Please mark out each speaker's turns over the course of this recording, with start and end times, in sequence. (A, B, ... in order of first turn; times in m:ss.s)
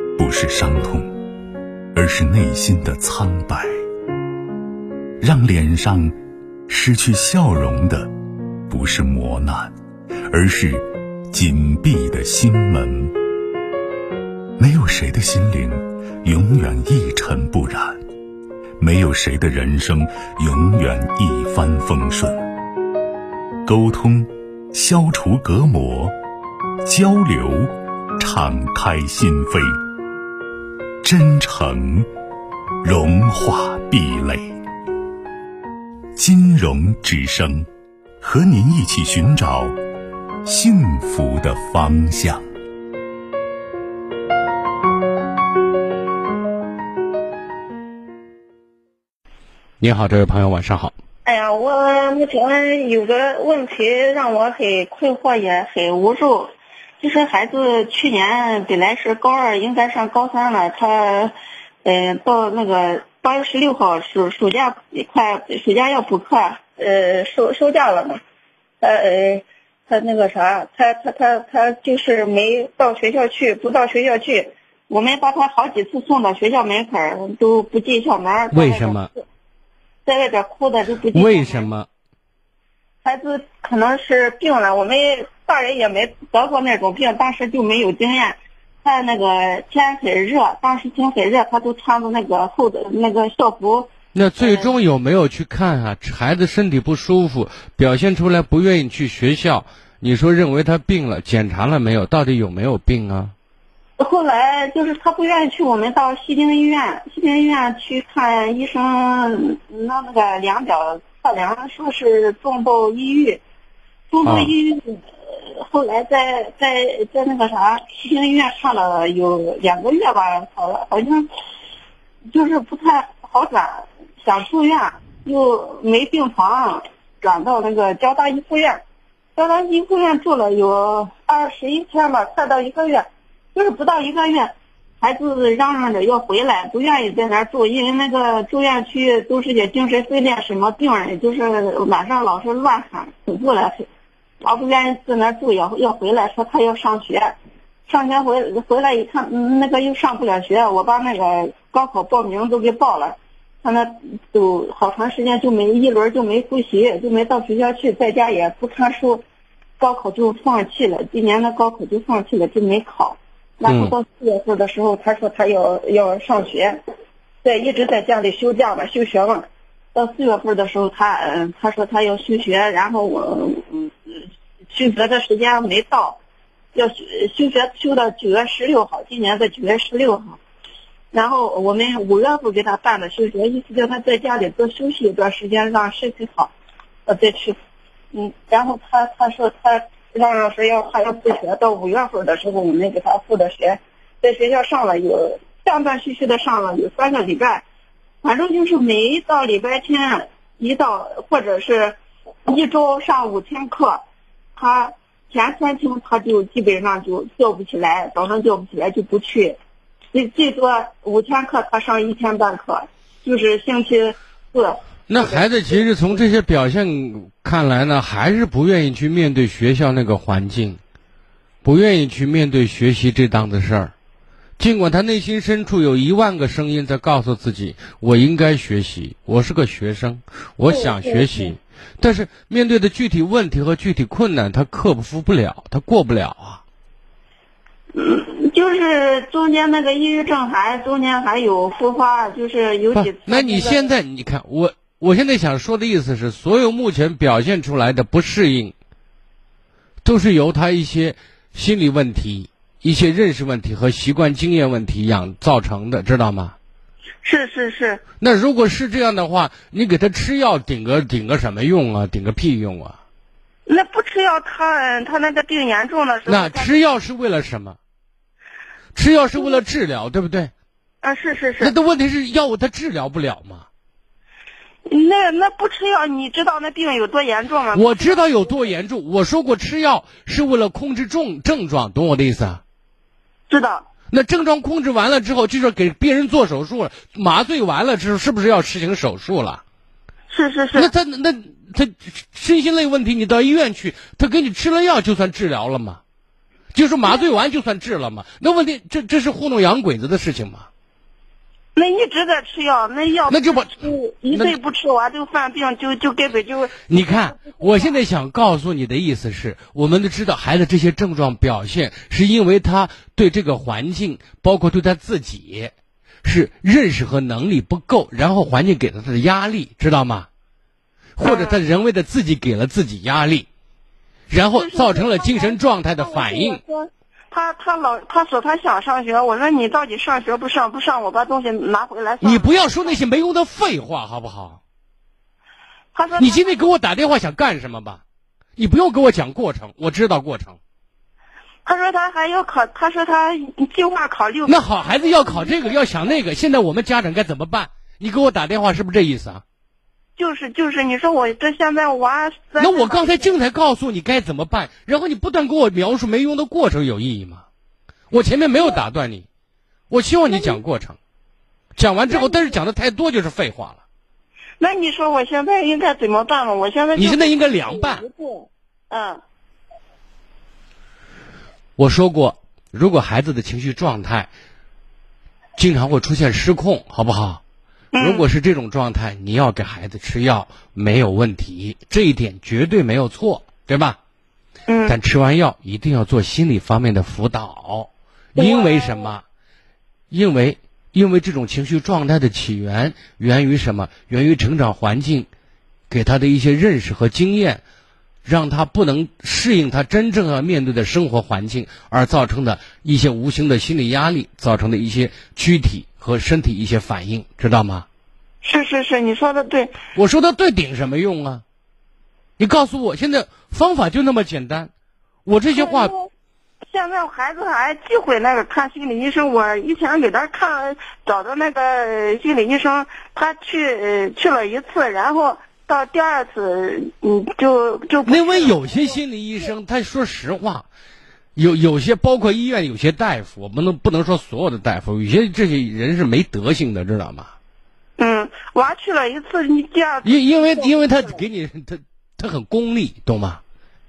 0:00.2-0:01.1 A
0:01.9-0:03.7 A
0:05.2-0:06.1 A
0:06.7-0:08.1 A
0:08.7-0:09.7 A
0:10.3-0:13.1 A
0:14.6-0:18.0 A
0:18.8-0:22.4 A
0:23.7-0:26.1 A
0:26.8-0:29.8 A
0:31.0-0:32.1 A
0:32.8-0:34.6 A
0:36.2-0:37.7 A
0:38.2-0:39.7 A
0:40.4-0:42.4 A
0:49.8-0:50.9 B
0:51.2-1:08.2 C
1:08.8-1:19.2 C
1:18.5-1:19.1 B
1:20.0-1:21.7 C
1:21.1-1:21.9 B
1:23.0-1:34.7 C
1:34.1-1:43.3 B
1:44.0-1:53.4 C
1:54.1-2:01.3 C
1:54.2-1:54.5 B
2:02.3-2:08.8 C
2:09.4-2:23.9 C
2:24.4-2:27.4 C
2:27.9-2:39.2 C
2:39.8-2:46.8 C
2:43.7-2:43.9 B
2:47.4-2:56.2 C
2:56.7-3:00.4 C
3:01.1-3:06.5 C
3:07.1-3:07.6 C
3:08.1-3:17.6 C
3:18.2-3:24.0 C
3:24.6-3:29.6 C
3:30.1-3:35.8 C
3:35.1-3:40.8 B
3:41.6-3:43.9 B
3:44.6-3:56.6 B
3:50.7-3:51.5 C
3:57.9-4:03.9 C
4:02.9-4:08.7 B
4:10.0-4:16.6 B
4:17.2-4:18.0 C
4:18.2-4:23.0 B
4:23.7-4:26.8 C
4:26.3-4:27.8 B
4:29.0-4:30.5 B
4:29.4-4:29.6 C
4:31.0-4:31.8 C
4:31.6-4:33.7 B
4:34.9-4:38.4 C
4:37.7-4:42.6 B
4:43.5-4:43.9 C
4:44.1-4:49.6 B
4:50.3-4:50.9 C
4:50.8-4:56.0 B
4:56.7-5:00.7 B
4:57.0-4:57.3 C
5:01.8-5:07.9 C
5:03.3-5:04.5 B
5:06.9-5:15.7 B
5:16.2-5:20.3 B
5:21.2-5:23.5 B
5:21.2-5:21.6 C
5:24.3-5:26.6 B
5:24.5-5:32.6 C
5:32.2-5:34.6 B
5:35.9-5:36.6 C
5:36.2-5:38.0 B
5:38.6-5:40.6 B
5:41.6-5:45.8 C
5:44.5-5:49.4 B
5:50.2-5:53.3 C
5:52.6-5:57.4 B
5:58.1-5:59.3 B
5:58.5-5:58.8 C
5:59.9-6:01.0 B
6:00.3-6:00.6 C
6:01.8-6:03.8 B
6:02.1-6:02.5 C
6:04.6-6:09.2 C
6:07.0-6:08.0 B
6:11.8-6:14.3 B
6:15.6-6:17.4 B
6:17.9-6:18.3 C
6:18.0-6:24.0 B
6:24.7-6:25.0 C
6:24.9-6:29.2 B
6:28.4-6:29.1 C
6:30.1-6:35.3 B
6:35.9-6:37.6 B
6:38.2-6:47.8 B
6:48.4-6:49.8 C
6:50.0-6:51.4 B
6:52.4-6:54.7 B
6:55.3-6:55.9 B
6:55.6-6:56.1 C
6:56.7-7:08.8 C
7:08.1-7:10.7 B
7:11.4-7:17.3 B
7:18.0-7:21.2 C
7:20.0-7:23.4 B